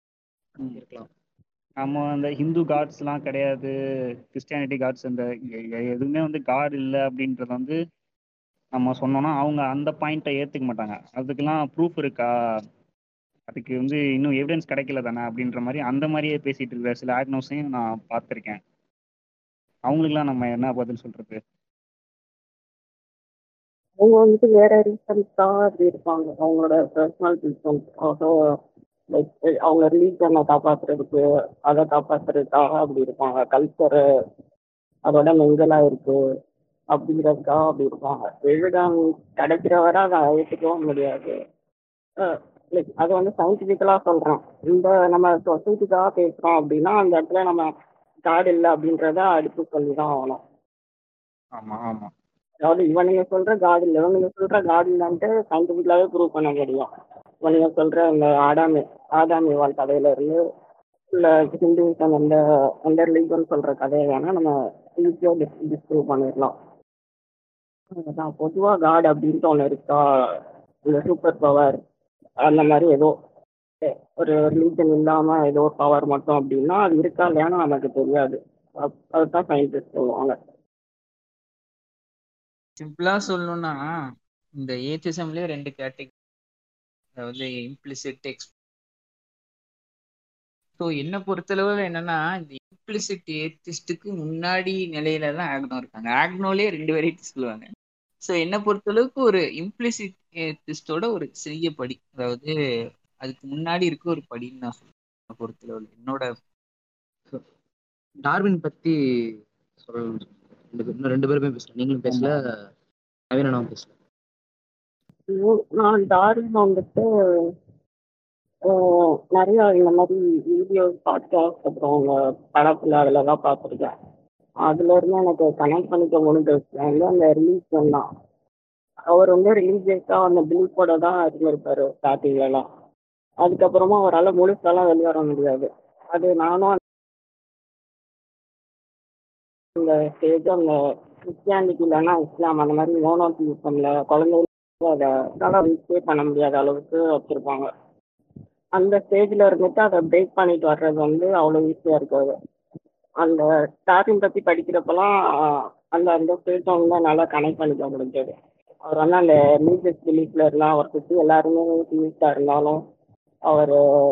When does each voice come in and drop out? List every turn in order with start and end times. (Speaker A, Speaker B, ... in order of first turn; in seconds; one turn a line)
Speaker A: 0.7-1.1
Speaker B: 1.8-3.7
Speaker B: 4.3-7.8
Speaker B: 8.7-12.3
Speaker B: 13.5-18.6
Speaker B: 19.9-21.4
Speaker C: 24.0-28.3
Speaker C: 29.1-34.0
Speaker C: 35.1-36.2
Speaker C: 36.9-41.3
Speaker C: 42.2-47.7
Speaker C: 48.3-50.4
Speaker B: 51.6-52.1
Speaker C: 52.6-56.9
Speaker C: 57.4-60.4
Speaker C: 61.1-66.5
Speaker C: 68.0-70.0
Speaker C: 70.9-71.8
Speaker C: 72.4-73.1
Speaker C: 73.8-80.4
Speaker D: 82.8-83.8
Speaker D: 84.6-86.1
Speaker D: 87.2-88.5
Speaker D: 90.8-97.7
Speaker D: 98.2-102.5
Speaker D: 103.2-106.3
Speaker A: 108.2-112.4
Speaker A: 113.3-113.9
Speaker C: 115.3-117.0
Speaker C: 118.7-123.9
Speaker C: 124.7-128.1
Speaker C: 129.1-132.7
Speaker C: 133.4-136.8
Speaker C: 139.8-140.8
Speaker C: 141.3-147.7
Speaker C: 148.8-152.3
Speaker C: 153.2-155.1
Speaker C: 155.9-158.3
Speaker C: 158.8-162.8
Speaker C: 163.5-163.8